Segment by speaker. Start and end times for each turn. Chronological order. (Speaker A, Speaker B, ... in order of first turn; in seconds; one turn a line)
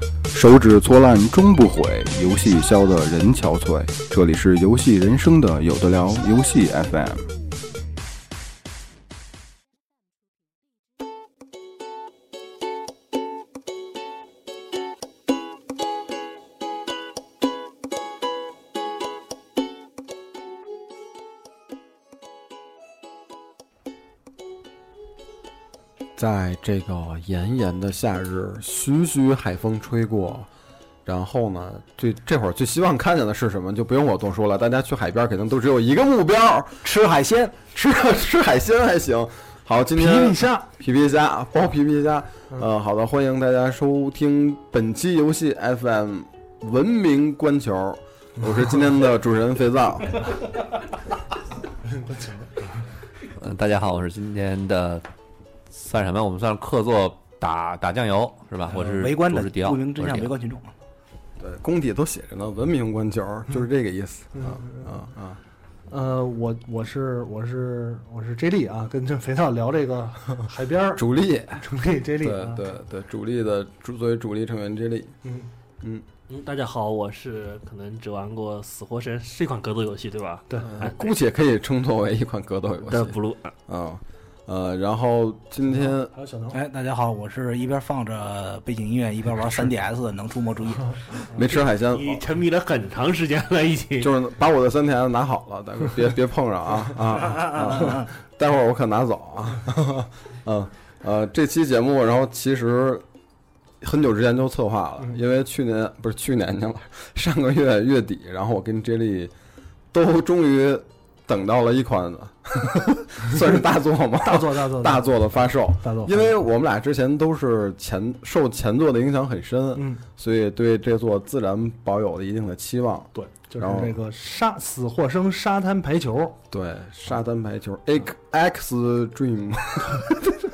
Speaker A: 0.3-7.2
Speaker B: 26.2-30.5
Speaker B: 31.1-36.8
Speaker C: 36.8-37.7
Speaker B: 37.7-50.3
Speaker D: 40.0-40.7
Speaker E: 53.4-55.0
Speaker E: 55.7-60.3
Speaker C: 58.9-60.7
Speaker B: 61.4-65.4
Speaker D: 64.3-64.8
Speaker D: 65.9-71.0
Speaker B: 71.0-71.6
Speaker D: 71.6-72.6
Speaker B: 72.2-75.2
Speaker F: 76.3-81.1
Speaker B: 80.7-86.1
Speaker F: 82.9-83.5
Speaker D: 86.1-86.6
Speaker C: 86.5-91.0
Speaker B: 91.3-92.2
Speaker F: 91.4-94.1
Speaker B: 94.0-103.0
Speaker C: 97.7-98.1
Speaker B: 103.8-109.3
Speaker B: 109.9-124.0
Speaker D: 114.2-115.2
Speaker D: 115.8-116.4
Speaker D: 119.8-120.0
Speaker D: 123.1-126.4
Speaker B: 126.5-130.3